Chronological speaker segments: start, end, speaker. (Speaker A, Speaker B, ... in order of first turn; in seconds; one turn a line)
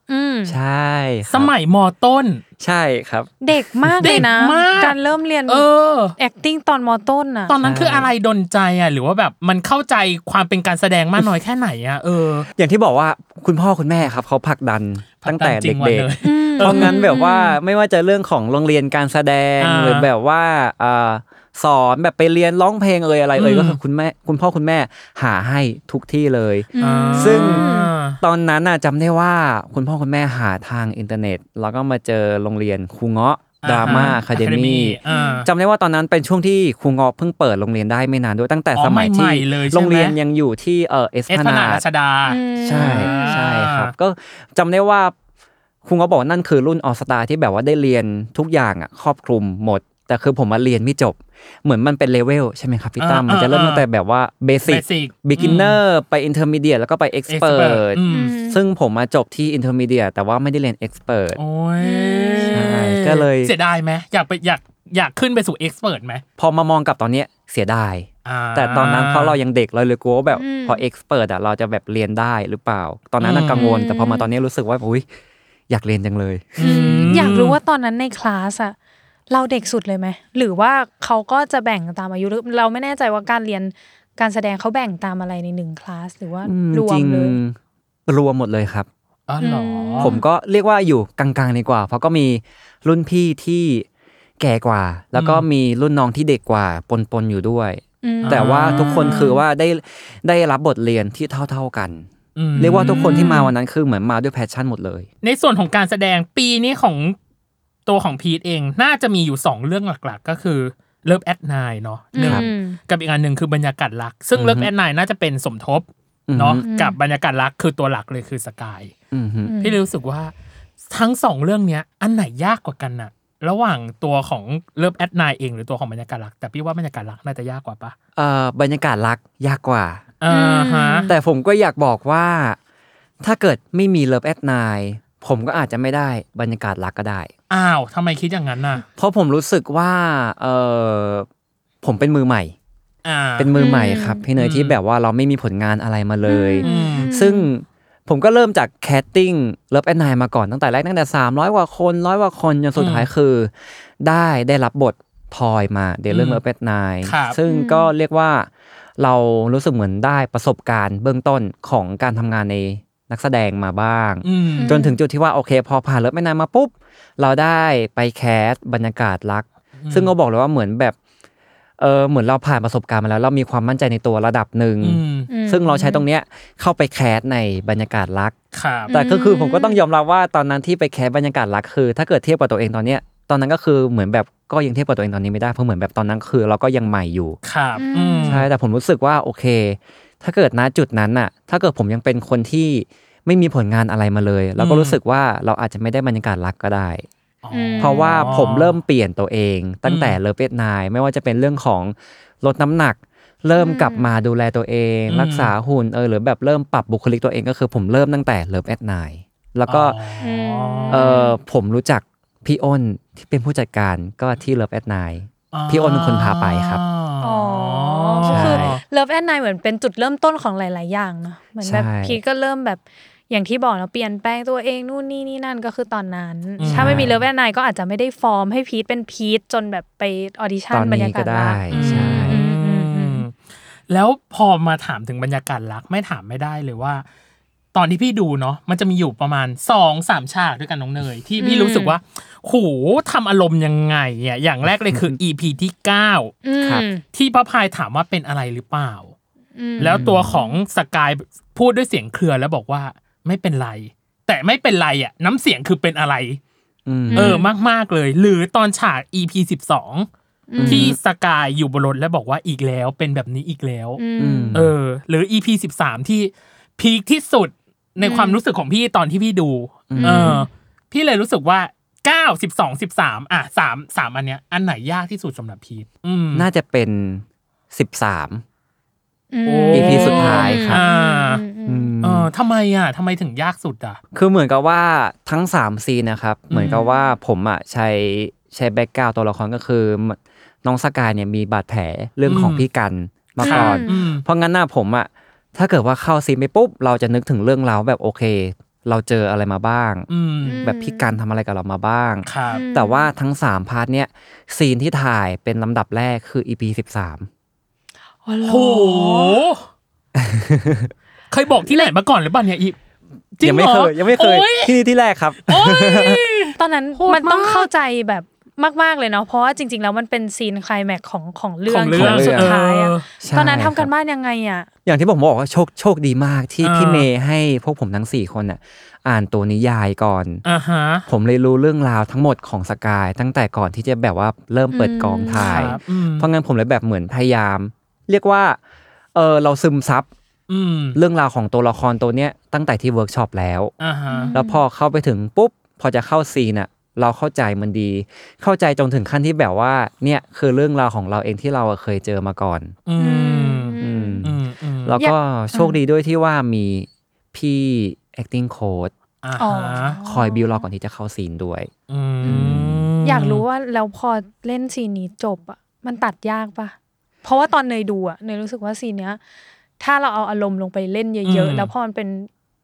Speaker A: 0.1-0.6
Speaker B: 0.5-1.5
Speaker C: 1.3-2.4
Speaker B: 2.6-4.3
Speaker A: 3.4-5.7
Speaker C: 4.0-5.0
Speaker C: 5.5-6.2
Speaker A: 6.2-7.5
Speaker C: 7.5-12.5
Speaker B: 7.6-8.1
Speaker B: 12.6-41.9
Speaker C: 15.2-17.0
Speaker A: 16.2-17.6
Speaker C: 19.6-20.1
Speaker C: 23.4-23.8
Speaker A: 26.7-27.9
Speaker C: 26.8-28.2
Speaker C: 33.6-35.5
Speaker A: 33.9-34.2
Speaker A: 35.1-35.4
Speaker C: 38.8-40.2
Speaker C: 41.3-43.9
Speaker A: 42.3-43.4
Speaker B: 42.6-45.1
Speaker B: 45.9-61.4
Speaker C: 53.0-53.9
Speaker C: 54.7-55.8
Speaker C: 57.3-58.4
Speaker A: 58.1-58.6
Speaker C: 61.4-66.2
Speaker A: 61.8-62.8
Speaker B: 62.5-63.5
Speaker B: 66.4-75.0
Speaker C: 68.2-69.4
Speaker A: 70.3-70.8
Speaker C: 73.2-73.7
Speaker A: 73.5-74.3
Speaker B: 75.7-77.3
Speaker C: 76.6-77.6
Speaker A: 76.6-78.8
Speaker A: 79.3-87.4
Speaker B: 86.5-88.9
Speaker C: 89.3-90.1
Speaker A: 89.4-90.2
Speaker B: 90.0-93.9
Speaker B: 94.4-105.1
Speaker C: 95.2-95.5
Speaker A: 98.0-99.4
Speaker C: 98.2-99.3
Speaker C: 102.4-103.4
Speaker A: 102.6-103.5
Speaker C: 105.2-107.2
Speaker C: 107.9-118.9
Speaker A: 112.2-112.8
Speaker B: 112.2-112.5
Speaker B: 114.3-114.7
Speaker B: 116.3-116.6
Speaker A: 116.6-117.0
Speaker B: 119.1-119.5
Speaker A: 119.5-119.8
Speaker C: 119.6-120.3
Speaker C: 120.9-128.0
Speaker B: 128.2-130.0
Speaker C: 130.2-131.1
Speaker A: 130.3-131.1
Speaker B: 131.1-132.6
Speaker B: 133.2-137.3
Speaker C: 137.5-138.8
Speaker B: 139.0-141.3
Speaker B: 141.8-142.6
Speaker C: 143.1-143.6
Speaker B: 143.4-171.0
Speaker A: 143.6-144.2
Speaker C: 144.4-144.8
Speaker A: 146.3-147.5
Speaker C: 146.6-147.1
Speaker C: 152.8-153.1
Speaker C: 156.1-156.4
Speaker C: 157.0-157.4
Speaker A: 157.5-157.9
Speaker C: 164.2-164.8
Speaker A: 164.6-165.0
Speaker C: 169.8-170.1
Speaker B: 171.8-178.4
Speaker C: 174.8-175.3
Speaker A: 175.3-176.0
Speaker C: 178.5-178.9
Speaker A: 178.9-179.8
Speaker B: 178.9-187.4
Speaker C: 187.4-188.5
Speaker A: 187.8-188.4
Speaker B: 188.2-197.1
Speaker C: 194.6-195.0
Speaker C: 197.4-198.8
Speaker A: 197.5-198.3
Speaker B: 197.8-210.0
Speaker C: 199.9-200.2
Speaker A: 203.6-204.1
Speaker C: 205.1-205.5
Speaker C: 209.7-211.1
Speaker A: 210.2-211.3
Speaker B: 210.9-216.8
Speaker C: 215.5-218.8
Speaker A: 217.2-233.2
Speaker B: 218.3-218.8
Speaker B: 221.6-222.2
Speaker C: 226.6-227.1
Speaker B: 226.6-227.1
Speaker B: 230.7-232.4
Speaker C: 231.7-233.4
Speaker C: 233.9-237.1
Speaker C: 237.7-246.4
Speaker A: 241.4-242.0
Speaker A: 246.4-247.0
Speaker C: 247.1-249.1
Speaker A: 249.6-250.6
Speaker B: 249.8-250.3
Speaker C: 249.8-256.4
Speaker B: 256.9-257.4
Speaker A: 257.1-257.5
Speaker C: 257.1-260.1
Speaker A: 260.5-260.9
Speaker B: 260.6-261.0
Speaker C: 260.7-264.0
Speaker A: 264.0-264.6
Speaker B: 264.2-264.7
Speaker C: 264.5-276.5
Speaker A: 268.0-268.4
Speaker B: 269.9-270.4
Speaker A: 270.0-270.5
Speaker B: 276.3-278.4
Speaker A: 279.3-281.9
Speaker C: 279.5-281.4
Speaker B: 279.7-280.8
Speaker B: 281.7-282.3
Speaker C: 282.0-284.0
Speaker B: 284.1-307.3
Speaker C: 286.5-286.9
Speaker C: 292.3-292.6
Speaker A: 293.4-293.9
Speaker C: 293.4-294.2
Speaker C: 300.1-300.6
Speaker A: 300.4-301.1
Speaker C: 302.3-302.6
Speaker A: 302.5-303.1
Speaker A: 308.2-309.4
Speaker C: 308.4-309.7
Speaker B: 310.2-310.9
Speaker C: 311.3-312.8
Speaker C: 313.4-314.8
Speaker B: 313.4-316.2
Speaker C: 315.5-317.7
Speaker A: 316.6-324.7
Speaker C: 321.7-323.1
Speaker B: 321.9-322.6
Speaker B: 323.2-323.9
Speaker B: 324.9-330.4
Speaker C: 326.6-327.1
Speaker C: 330.4-331.1
Speaker B: 331.1-338.6
Speaker A: 334.7-335.8
Speaker C: 335.4-336.3
Speaker B: 339.1-340.1
Speaker C: 340.5-341.0
Speaker B: 340.9-343.7
Speaker C: 343.8-344.4
Speaker A: 344.1-344.6
Speaker B: 344.3-352.8
Speaker C: 352.9-355.0
Speaker A: 353.0-354.2
Speaker B: 353.8-358.9
Speaker A: 355.0-355.8
Speaker C: 359.2-360.0
Speaker A: 359.4-360.6
Speaker B: 360.1-361.7
Speaker C: 361.9-363.4
Speaker A: 362.2-362.5
Speaker B: 362.3-362.9
Speaker A: 363.0-369.2
Speaker A: 369.8-372.3
Speaker C: 371.2-371.7